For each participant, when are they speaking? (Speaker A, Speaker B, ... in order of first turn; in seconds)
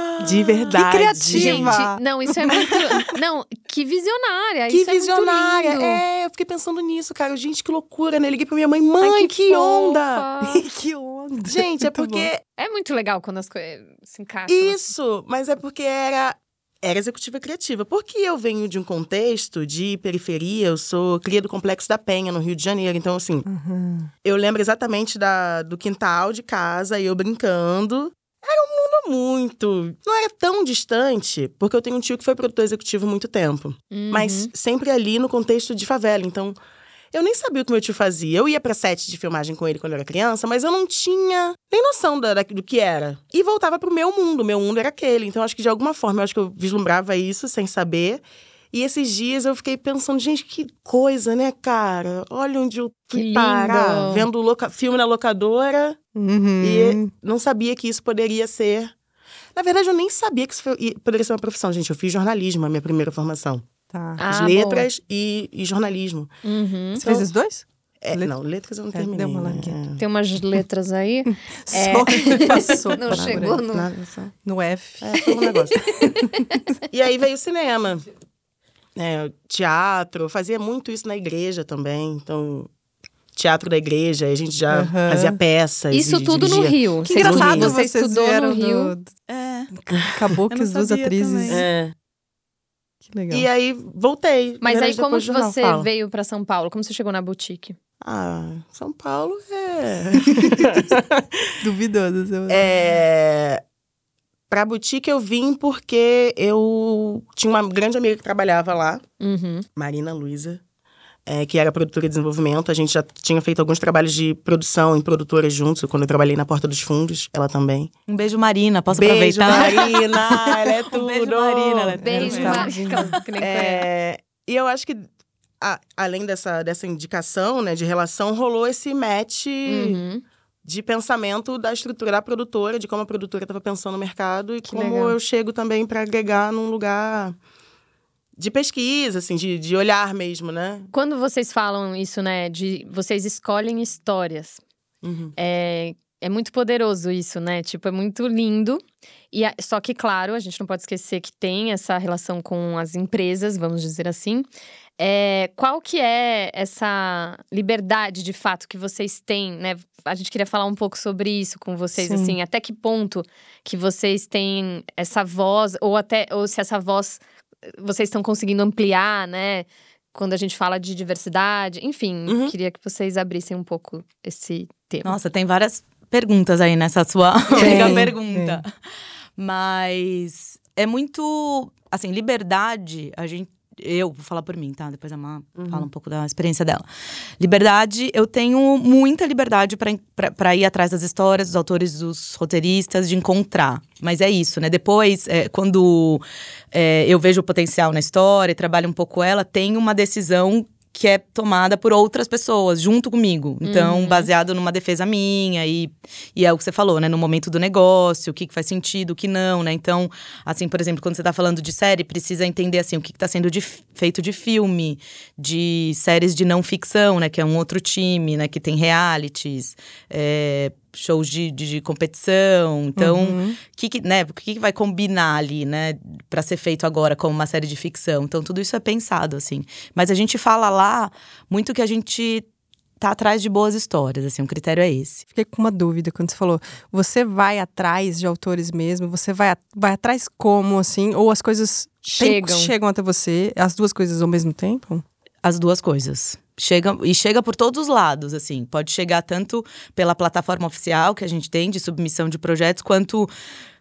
Speaker A: 0.2-1.7, 4.7-10.3, 11.4-12.4, 14.5-23.4, 24.2-36.6, 37.1-56.0, 56.6-58.9, 59.5-63.6, 64.3-66.3, 68.0-70.0, 72.7-74.3, 75.0-75.9, 76.9-78.0, 79.0-82.7, 83.3-87.7, 91.5-91.9, 93.3-95.9, 98.0-101.5, 102.5-103.6, 104.5-109.0, 109.7-110.6, 111.2-117.9, 118.9-122.6, 123.4-125.1, 125.6-130.0, 130.6-137.3, 138.4-140.9, 145.0-145.3, 172.3-172.5, 185.6-185.8
Speaker B: 0.7-3.0, 10.4-12.3, 23.4-24.1, 56.1-57.1, 63.9-64.2, 66.9-68.3, 68.9-69.8, 71.6-73.6, 74.4-75.2, 84.7-85.4, 87.0-89.1, 89.7-91.7, 93.0-93.5, 100.3-100.7, 101.6-102.7, 122.0-123.2, 162.0-162.4, 177.5-178.6, 223.0-223.6, 235.3-245.0
Speaker C: 1.3-6.0, 9.0-10.6, 12.6-14.9, 33.9-34.5, 53.1-54.3, 64.2-64.9, 66.4-67.0, 70.0-73.9, 75.2-76.6, 85.9-88.9, 94.6-97.8, 109.2-109.7, 122.0-123.9, 129.7-130.2, 134.7-135.2, 140.9-144.6, 145.4-154.5, 155.0-175.1, 177.6-178.0, 203.6-204.3, 242.1-242.7
Speaker D: 89.3-89.7, 90.5-91.7, 118.1-122.7, 175.0-178.7, 179.4-186.8, 187.4-232.4, 233.0-235.2, 245.4-253.3